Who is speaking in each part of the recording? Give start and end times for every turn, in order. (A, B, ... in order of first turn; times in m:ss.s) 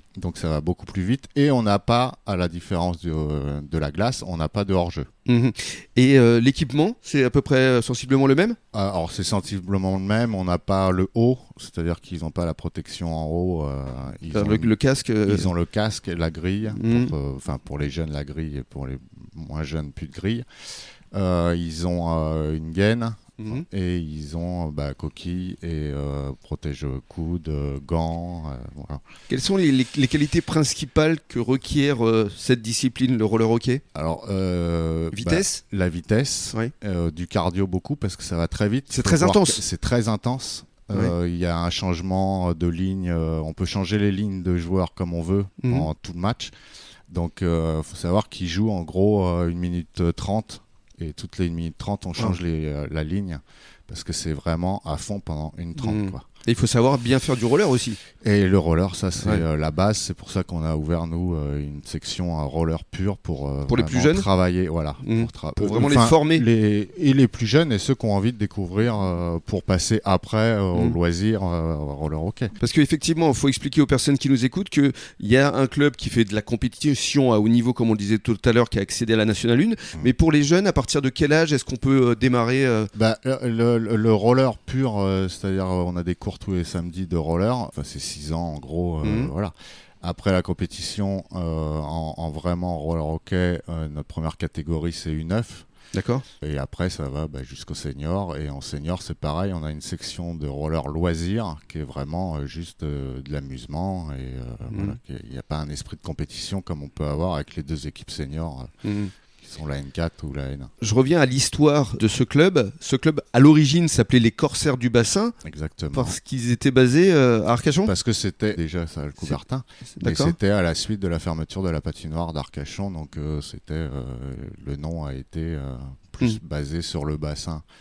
0:00.2-0:05.1 A
0:05.2-0:08.6 B
0:08.7-0:14.7 A
0:14.3-0:15.5 B
0:15.2-0:20.4 A
0:16.7-0:17.1 B
0:21.1-0:29.0 A
0:23.4-0:23.6 B
0:29.3-0:33.8 B
0:33.9-0:46.5 A
0:35.1-0:35.6 B
0:38.9-0:39.6 B
0:45.6-0:45.9 B
0:47.1-0:56.2 A
0:55.8-0:58.0 B
0:58.2-1:12.5 A
1:03.7-1:04.2 B
1:05.0-1:06.4 B
1:12.6-1:22.9 B
1:22.9-1:35.6 A
1:29.0-1:29.3 B
1:35.9-1:36.2 B
1:36.4-1:48.7 A
1:44.7-1:45.0 B
1:48.8-1:49.1 B
1:49.4-1:50.7 A
1:50.8-1:55.3 B
1:55.4-1:56.2 A
1:55.9-1:57.9 B
1:57.8-2:07.6 A
2:00.0-2:00.4 B